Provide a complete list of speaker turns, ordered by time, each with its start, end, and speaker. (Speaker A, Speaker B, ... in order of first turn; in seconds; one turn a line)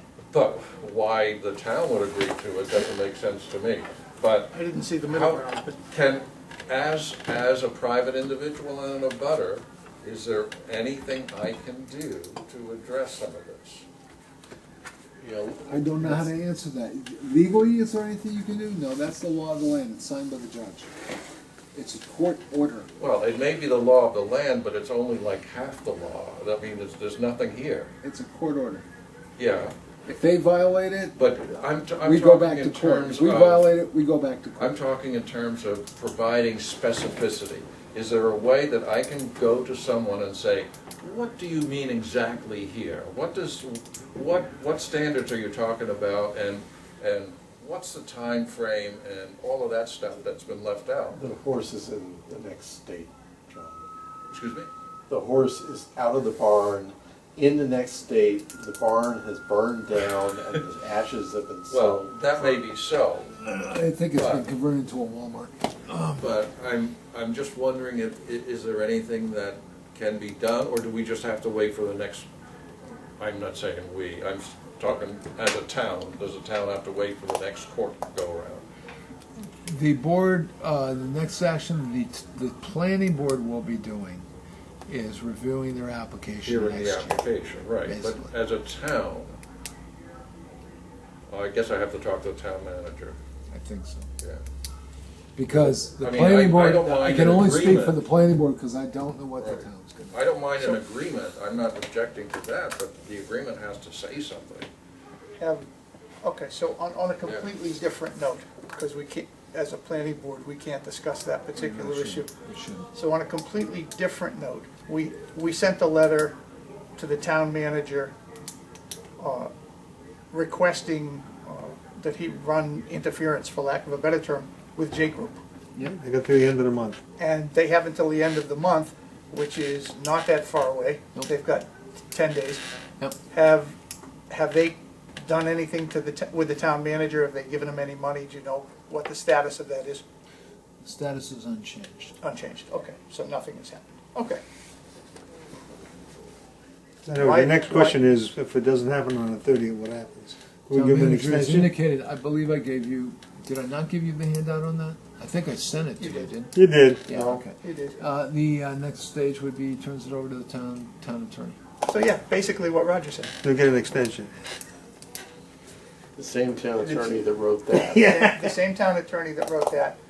Speaker A: 0.3-13.8
Speaker B: 4.5-5.8
Speaker C: 15.2-15.6
Speaker A: 15.4-16.2
Speaker D: 15.7-20.9
Speaker D: 21.7-22.9
Speaker A: 23.0-27.9
Speaker D: 28.0-28.9
Speaker A: 29.4-29.7
Speaker D: 30.1-31.2
Speaker A: 31.2-33.7
Speaker D: 32.0-34.8
Speaker A: 34.6-51.2
Speaker C: 51.1-53.8
Speaker A: 54.3-54.7
Speaker C: 55.1-62.5
Speaker A: 61.7-63.3
Speaker D: 63.4-66.3
Speaker A: 64.2-64.5
Speaker A: 66.2-72.3
Speaker A: 73.2-78.7
Speaker D: 79.6-84.3
Speaker D: 84.9-87.2
Speaker A: 86.4-89.4
Speaker D: 87.8-88.3
Speaker A: 91.3-93.2
Speaker D: 93.5-94.1
Speaker D: 95.4-100.2
Speaker A: 96.0-98.0
Speaker A: 99.4-104.7
Speaker B: 105.4-105.7
Speaker B: 106.2-112.3
Speaker D: 111.6-112.9
Speaker B: 113.0-116.3
Speaker B: 117.0-118.1
Speaker B: 119.2-119.5
Speaker B: 120.3-125.4
Speaker E: 125.8-127.0
Speaker B: 127.2-132.6
Speaker B: 133.3-133.8
Speaker B: 134.3-140.0
Speaker D: 140.8-142.2
Speaker B: 142.2-144.4
Speaker E: 147.1-151.7
Speaker B: 147.2-148.0
Speaker D: 150.7-161.6
Speaker B: 156.0-156.3
Speaker E: 156.5-157.1
Speaker C: 157.1-157.4
Speaker B: 157.6-158.0
Speaker B: 161.9-163.3
Speaker E: 163.4-164.3
Speaker C: 166.2-168.1
Speaker E: 167.7-168.6
Speaker B: 168.0-170.0